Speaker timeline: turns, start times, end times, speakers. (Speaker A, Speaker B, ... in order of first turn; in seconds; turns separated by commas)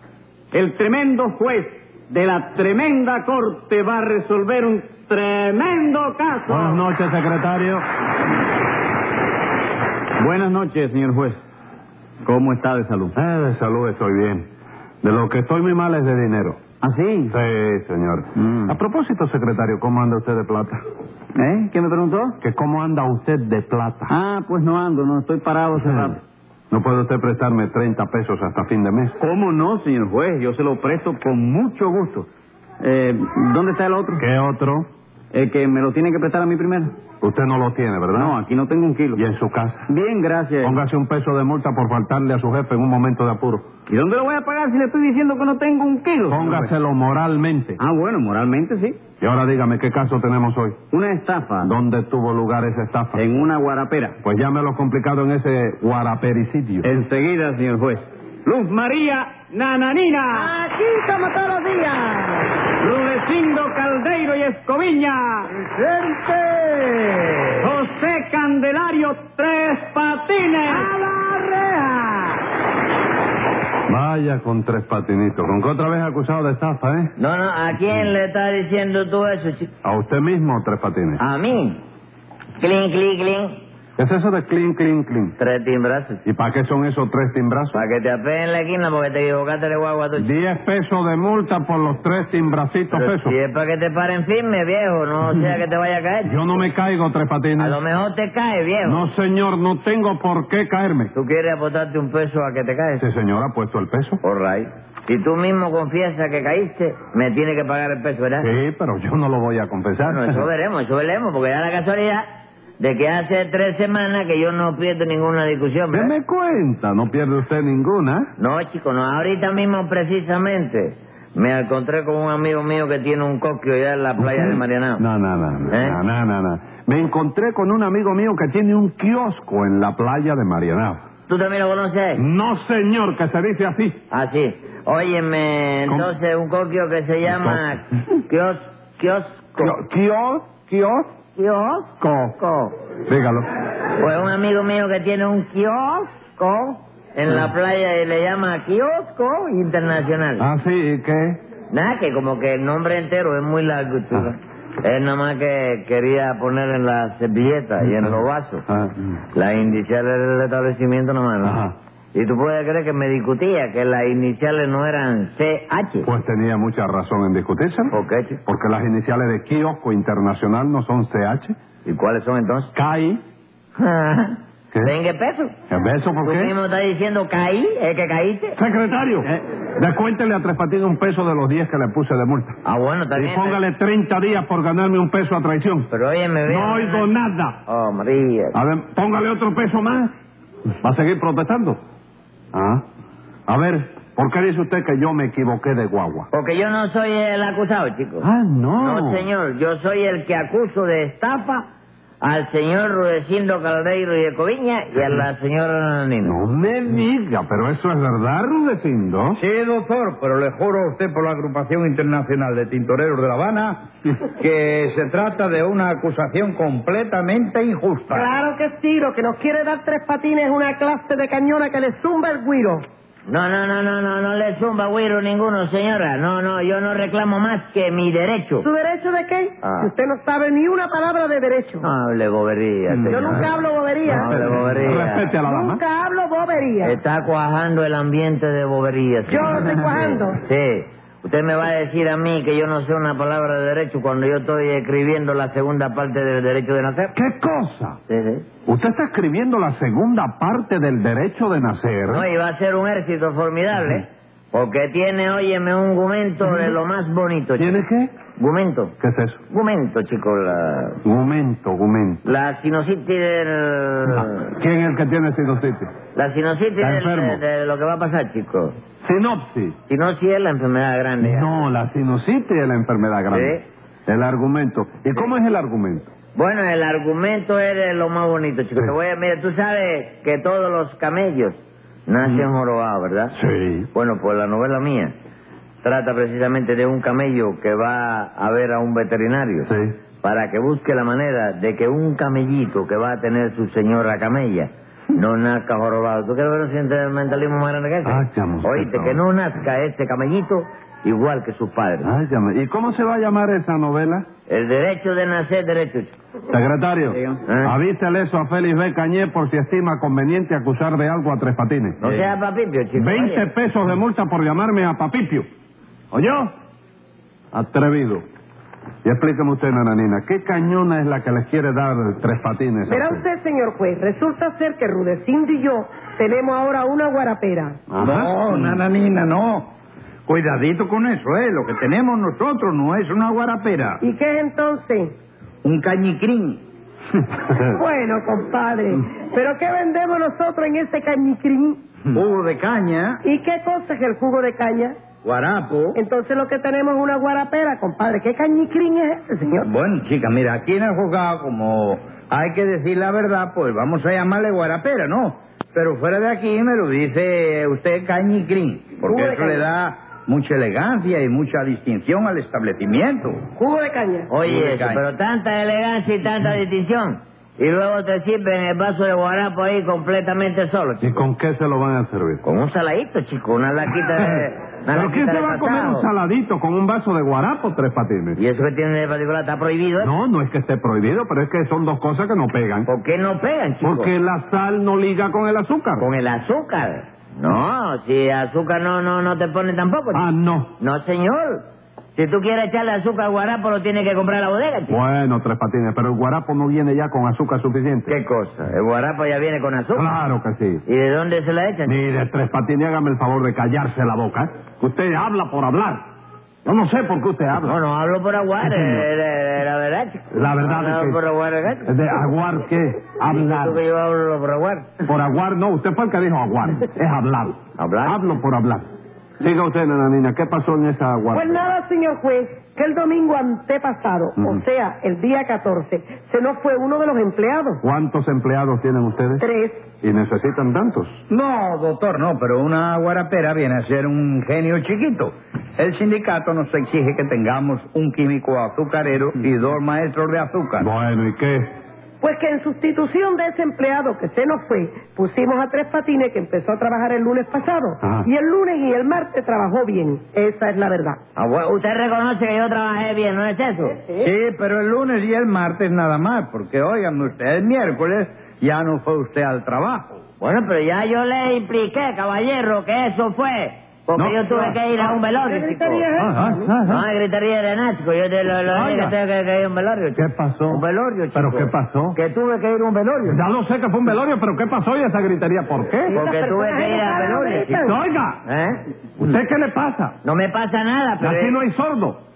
Speaker A: 0.5-6.8, Speaker B: 6.5-7.8, Speaker A: 10.2-11.4, Speaker A: 12.2-13.1, Speaker B: 13.1-14.4, Speaker B: 15.0-16.6, Speaker A: 16.8-17.3, Speaker B: 17.3-20.8, Speaker A: 18.4-18.7, Speaker A: 21.3-22.4, Speaker B: 22.4-24.1, Speaker A: 24.1-26.2, Speaker B: 25.8-26.1, Speaker B: 26.7-29.2, Speaker A: 29.2-32.3, Speaker A: 32.8-34.2, Speaker B: 34.2-34.9, Speaker A: 35.3-36.9, Speaker B: 37.2-38.4, Speaker A: 38.1-39.2, Speaker B: 39.1-39.9, Speaker A: 39.9-40.8, Speaker B: 40.6-43.6, Speaker A: 43.9-46.7, Speaker B: 46.3-47.8, Speaker A: 47.8-49.0, Speaker B: 49.2-50.8, Speaker A: 50.9-51.7, Speaker B: 51.6-53.2, Speaker A: 53.1-54.2, Speaker B: 54.2-56.9, Speaker A: 56.8-60.5, Speaker C: 60.3-62.5, Speaker A: 62.8-65.5, Speaker A: 67.6-70.9, Speaker C: 70.7-72.3, Speaker B: 73.9-77.1, Speaker D: 77.2-79.7, Speaker B: 79.8-81.2, Speaker D: 81.2-81.8, Speaker D: 82.6-83.6, Speaker B: 84.0-85.4, Speaker D: 85.4-86.2, Speaker B: 86.2-87.8, Speaker D: 87.7-90.3, Speaker B: 90.2-93.3, Speaker D: 92.9-96.6, Speaker B: 96.2-97.8, Speaker D: 97.6-99.0, Speaker B: 98.8-101.1, Speaker D: 101.1-103.0, Speaker B: 103.0-104.2, Speaker D: 104.2-108.5, Speaker B: 108.4-110.5, Speaker D: 110.0-112.2, Speaker D: 112.8-116.1, Speaker B: 115.9-118.3, Speaker D: 118.4-125.0, Speaker B: 124.2-131.0, Speaker D: 125.7-126.0, Speaker D: 131.3-132.2, Speaker B: 132.2-134.0, Speaker D: 134.1-139.8, Speaker B: 137.2-137.6, Speaker B: 139.6-141.1, Speaker D: 141.3-142.7, Speaker B: 142.0-142.3, Speaker B: 143.1-143.4, Speaker D: 144.0-150.4, Speaker B: 150.4-151.4, Speaker D: 151.7-158.6, Speaker B: 157.9-159.1, Speaker D: 159.3-166.1, Speaker B: 161.4-161.7, Speaker B: 166.0-167.9, Speaker D: 167.9-168.4, Speaker B: 168.4-171.5, Speaker D: 171.8-172.7, Speaker B: 172.7-173.2, Speaker D: 173.8-175.5, Speaker B: 175.7-176.5, Speaker D: 176.2-178.6, Speaker B: 178.6-182.6, Speaker D: 182.6-183.6, Speaker B: 183.1-185.9, Speaker D: 185.9-187.1, Speaker B: 186.5-187.6, Speaker D: 187.7-188.5, Speaker B: 188.5-190.1, Speaker B: 190.8-191.8, Speaker B: 192.5-192.8, Speaker B: 193.5-196.3, Speaker D: 196.3-198.3, Speaker B: 198.2-199.3, Speaker D: 198.8-201.7, Speaker D: 202.2-206.4, Speaker B: 206.2-209.4, Speaker E: 209.4-218.3, Speaker C: 218.1-222.8, Speaker D: 223.3-228.7, Speaker C: 228.6-231.8, Speaker D: 229.6-229.9, Speaker D: 231.8-233.5, Speaker B: 232.9-233.4, Speaker C: 233.1-234.5, Speaker D: 234.0-235.2, Speaker B: 234.1-235.8, Speaker C: 235.4-237.0, Speaker D: 236.8-247.1, Speaker C: 239.3-240.4, Speaker B: 247.1-248.0, Speaker D: 248.1-248.4, Speaker B: 248.7-252.3, Speaker D: 252.1-257.8, Speaker B: 257.6-258.1, Speaker D: 258.3-258.9, Speaker B: 259.0-259.4, Speaker D: 259.5-261.0, Speaker B: 261.0-262.2, Speaker D: 262.2-264.5, Speaker B: 264.6-265.9, Speaker D: 266.1-268.7, Speaker B: 266.8-267.4, Speaker B: 269.0-269.8, Speaker D: 269.9-271.6, Speaker B: 271.2-276.1, Speaker D: 273.3-273.6, Speaker D: 276.3-283.3, Speaker B: 283.3-283.9, Speaker D: 283.9-285.1, Speaker D: 285.8-289.7, Speaker B: 289.7-289.9, Speaker D: 290.2-302.1, Speaker B: 298.0-299.2, Speaker B: 302.0-304.3, Speaker D: 304.5-306.1, Speaker B: 306.5-312.0, Speaker A: 307.1-307.4, Speaker D: 307.4-307.8, Speaker D: 312.0-313.4, Speaker B: 312.9-315.5, Speaker B: 316.1-316.5, Speaker B: 317.5-318.2, Speaker B: 319.0-323.2, Speaker C: 322.9-327.8, Speaker B: 327.9-328.3, Speaker E: 328.0-329.7, Speaker E: 330.3-334.0, Speaker C: 334.0-335.1, Speaker E: 335.6-336.6, Speaker C: 337.5-341.8, Speaker E: 342.1-343.2, Speaker C: 343.2-345.0, Speaker E: 345.2-346.0, Speaker C: 345.9-349.7, Speaker E: 349.6-363.4, Speaker C: 359.1-359.6, Speaker C: 363.6-364.3, Speaker D: 364.3-371.3, Speaker E: 364.4-365.0, Speaker B: 371.0-372.4, Speaker D: 372.4-376.1, Speaker B: 374.2-378.4, Speaker D: 378.4-380.1, Speaker B: 380.0-382.9, Speaker D: 382.9-384.1, Speaker B: 383.8-386.1, Speaker D: 386.0-390.2, Speaker B: 390.1-390.7, Speaker D: 390.8-391.6, Speaker D: 392.1-395.0, Speaker B: 394.9-398.1, Speaker D: 398.1-400.1, Speaker B: 399.9-400.8, Speaker D: 400.9-402.0, Speaker B: 401.9-406.0, Speaker B: 406.6-407.8, Speaker D: 407.6-411.9, Speaker B: 408.6-409.1, Speaker B: 410.3-411.2, Speaker B: 411.9-413.8, Speaker D: 413.2-414.9, Speaker B: 415.1-418.8, Speaker D: 417.8-418.2, Speaker B: 419.4-421.6, Speaker C: 421.3-427.8, Speaker B: 427.8-429.4, Speaker C: 429.4-429.9, Speaker B: 430.0-431.2, Speaker E: 431.3-440.9, Speaker B: 440.8-441.7, Speaker C: 442.2-451.2, Speaker B: 448.0-448.3, Speaker D: 451.4-454.0, Speaker E: 454.2-460.2, Speaker D: 460.4-466.1, Speaker B: 464.1-464.8, Speaker C: 465.0-466.8, Speaker B: 466.2-467.1, Speaker D: 466.9-473.4, Speaker B: 468.7-469.1, Speaker B: 470.1-470.8, Speaker B: 471.3-472.2, Speaker B: 473.3-476.1, Speaker C: 476.1-478.0, Speaker D: 476.1-477.9, Speaker B: 477.8-478.4, Speaker D: 478.4-478.8, Speaker B: 479.2-480.1, Speaker D: 480.2-481.6, Speaker B: 481.2-482.2